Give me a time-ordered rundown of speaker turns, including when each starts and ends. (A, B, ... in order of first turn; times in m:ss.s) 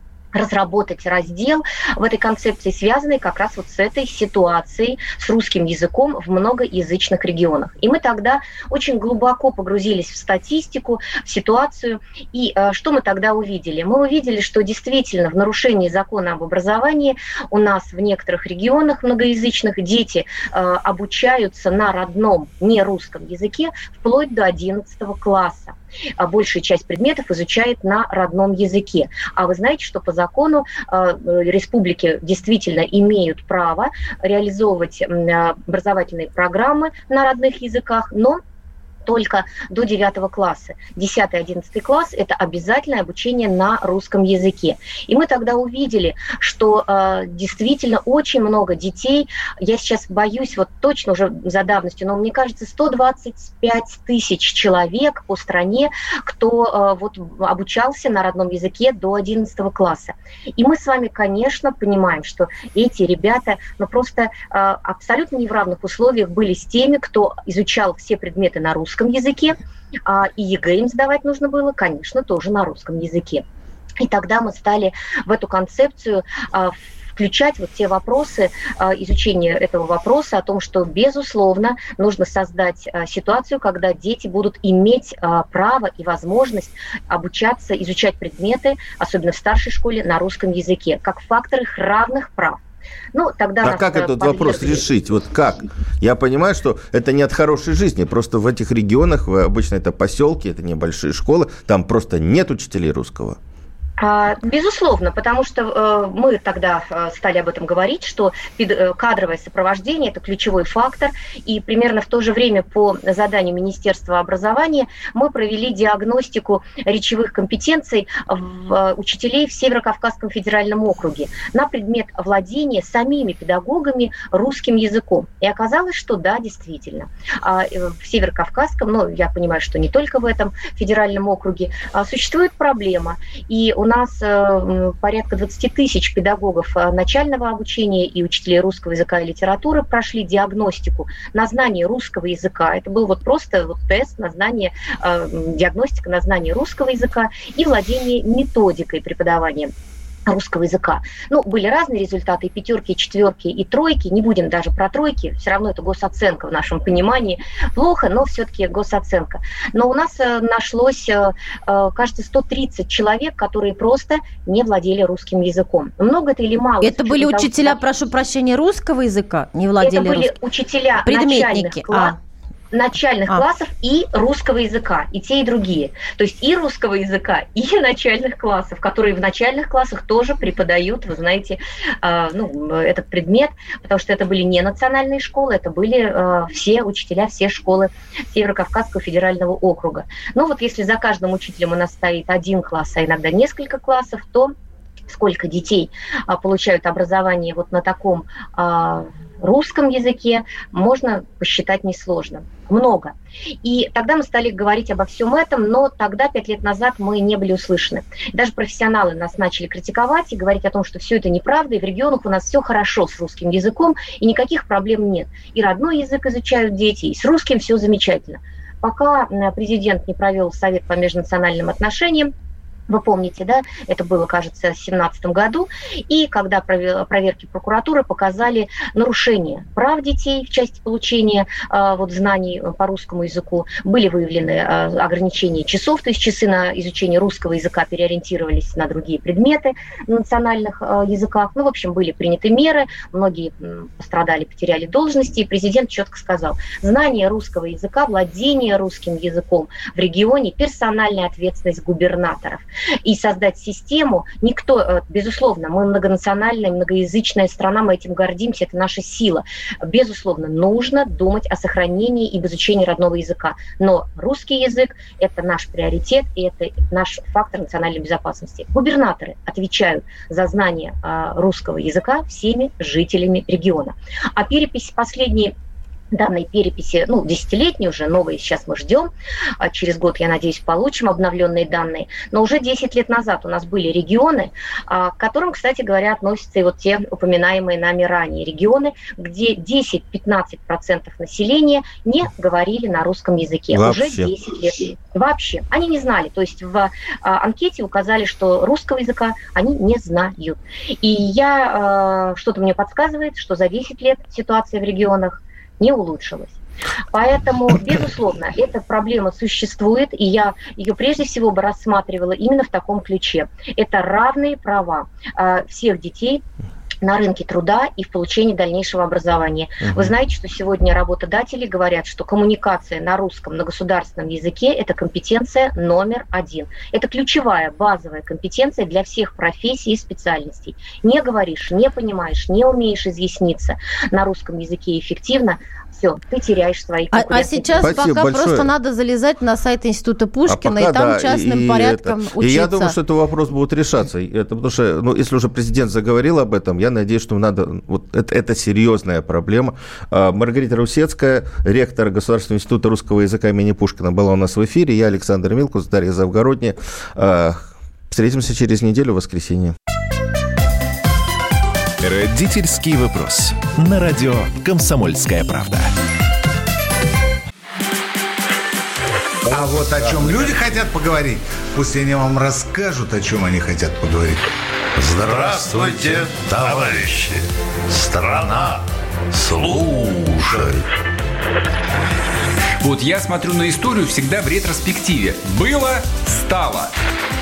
0:00.3-0:38.4 A
0:39.0-1:13.4 A
1:14.0-1:32.6 A
1:33.1-1:34.8 A
1:33.6-1:43.4 B
1:44.0-2:29.7 A
2:30.3-2:47.8 A
2:46.8-2:50.3 C
2:49.8-2:52.1 A
2:51.0-2:52.2 C
2:52.7-3:14.5 A
3:15.1-3:42.3 A
3:42.9-4:35.5 A
4:36.1-5:06.6 A
4:53.7-4:54.3 B
5:07.1-5:16.4 A
5:17.0-5:38.0 A
5:37.1-5:42.9 C
5:37.8-5:38.7 B
5:40.4-5:59.7 B
6:02.0-6:05.9 D
6:09.5-6:14.5 E
6:15.0-6:20.8 F
6:22.8-6:26.9 G